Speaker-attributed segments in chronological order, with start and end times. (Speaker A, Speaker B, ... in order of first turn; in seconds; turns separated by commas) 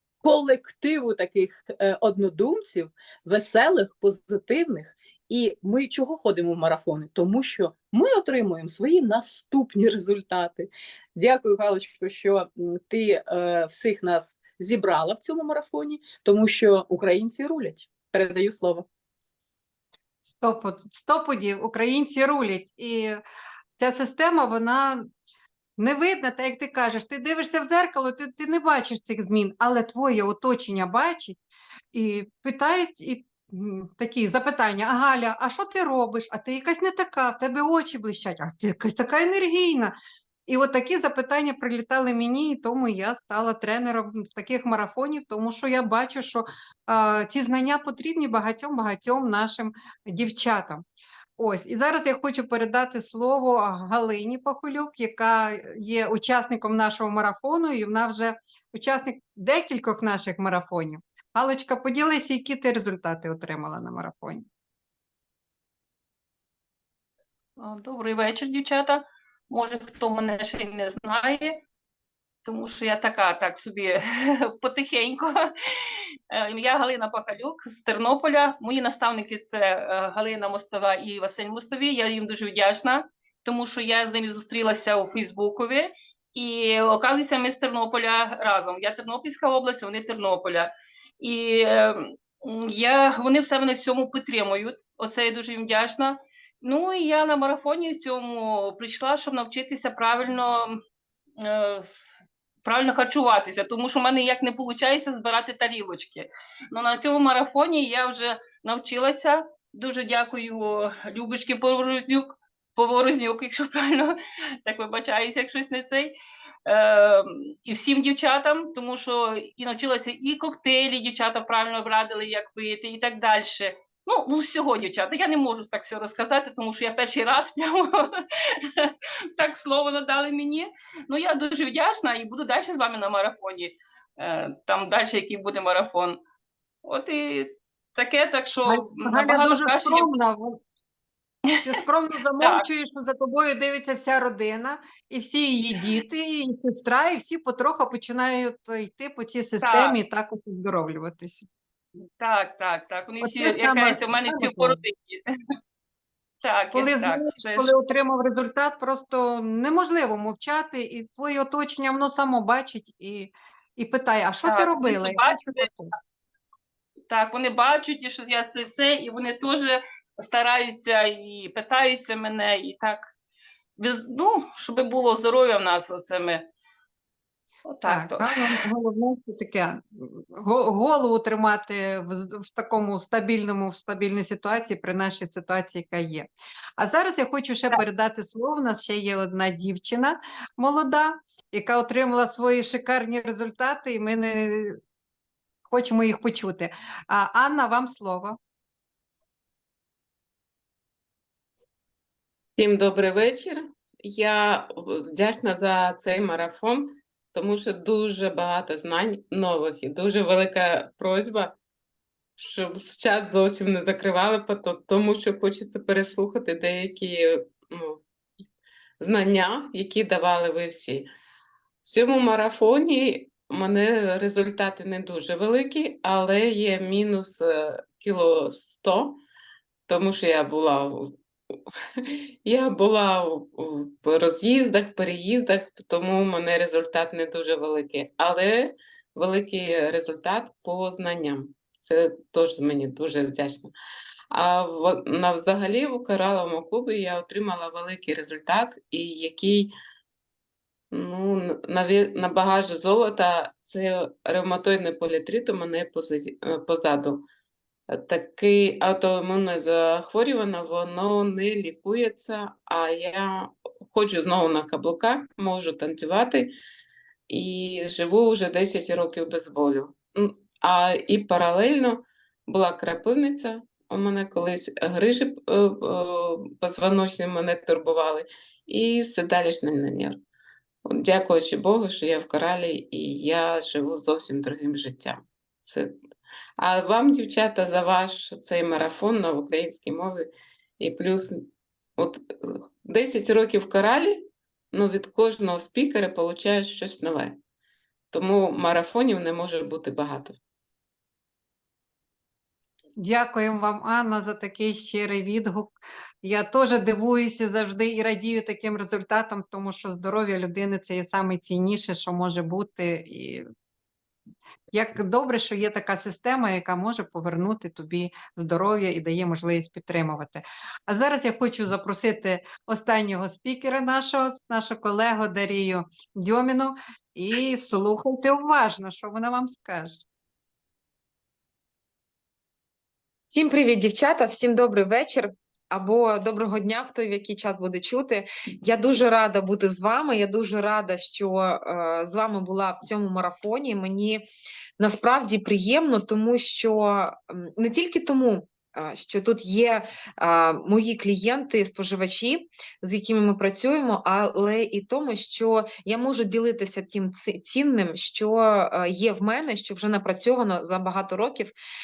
Speaker A: 0.2-18.9, Speaker B: 20.2-23.2, Speaker B: 23.8-25.1, Speaker B: 25.8-31.4, Speaker B: 31.9-39.9, Speaker B: 40.5-50.8, Speaker B: 51.4-64.5, Speaker C: 67.6-71.6, Speaker C: 72.5-100.8, Speaker C: 101.4-102.1, Speaker C: 102.6-116.2, Speaker C: 116.7-136.2, Speaker C: 136.8-140.1, Speaker B: 138.7-140.6, Speaker C: 141.5-141.7, Speaker B: 141.6-151.5, Speaker C: 142.4-142.7, Speaker C: 149.6-150.0, Speaker C: 152.2-155.2, Speaker B: 153.2-154.8, Speaker C: 156.4-157.7, Speaker B: 156.7-165.9, Speaker C: 164.4-165.7, Speaker C: 167.1-173.1, Speaker C: 173.8-176.5, Speaker C: 177.7-178.6, Speaker B: 177.9-194.8, Speaker B: 195.7-198.4, Speaker D: 202.6-211.6, Speaker D: 212.4-218.0, Speaker D: 219.0-221.1, Speaker D: 221.8-229.2, Speaker D: 229.9-243.7, Speaker D: 244.3-249.7, Speaker D: 250.9-257.2, Speaker D: 257.9-266.5, Speaker D: 267.3-280.2, Speaker D: 280.9-286.0, Speaker D: 286.6-297.4, Speaker D: 298.1-300.4, Speaker B: 303.0-313.4, Speaker B: 314.7-330.0, Speaker E: 333.3-344.3, Speaker E: 344.8-361.5